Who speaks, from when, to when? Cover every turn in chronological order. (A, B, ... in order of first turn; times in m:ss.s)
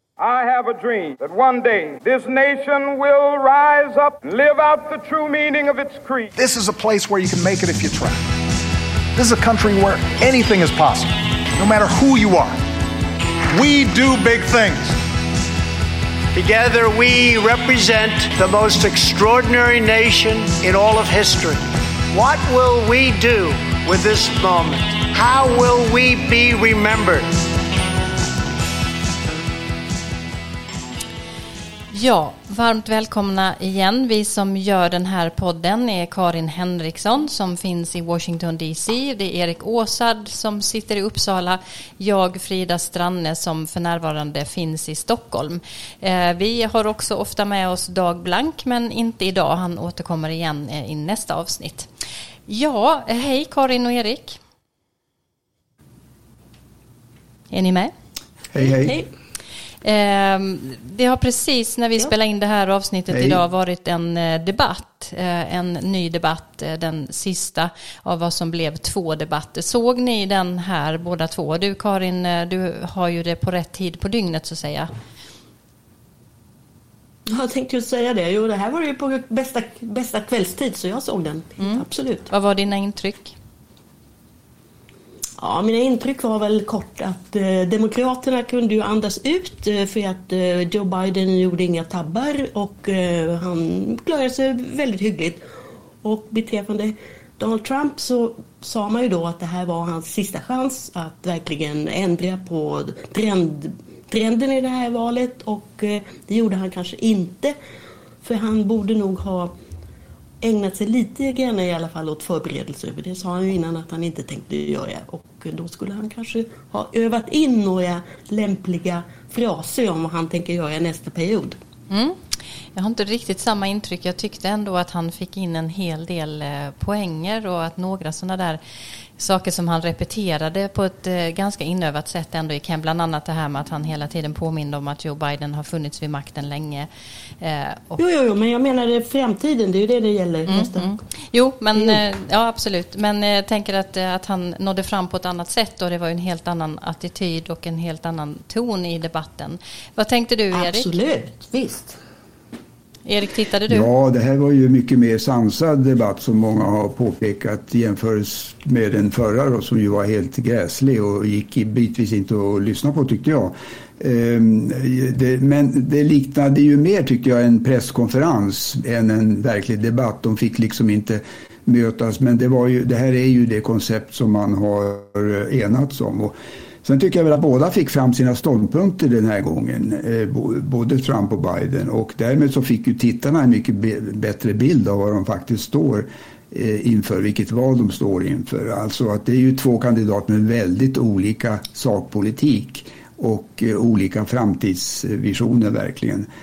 0:00.2-0:06.3 A
0:06.4-0:08.2 B
0:09.2-0:12.6 B
0:13.5-0:15.0 B
0:16.3-0:27.3 C
0:31.9-0:51.9 D
0:52.5-0:54.4 D
0:57.5-0:57.9 D
0:58.5-0:59.0 E
0:58.6-0:59.1 F
0:59.8-1:14.9 D
1:03.1-1:03.4 E
1:17.3-1:22.3 F
1:21.6-1:23.3 D
1:25.4-1:35.4 F
1:36.0-1:47.5 F
1:48.2-1:49.5 F
1:50.4-2:01.6 F
2:01.9-2:02.2 D
2:02.7-2:08.6 D
2:09.2-2:16.9 D
2:17.4-2:18.0 D
2:18.0-2:20.9 F
2:20.5-2:30.9 D
2:30.5-2:32.0 F
2:33.0-2:33.9 D
2:33.7-3:16.3 E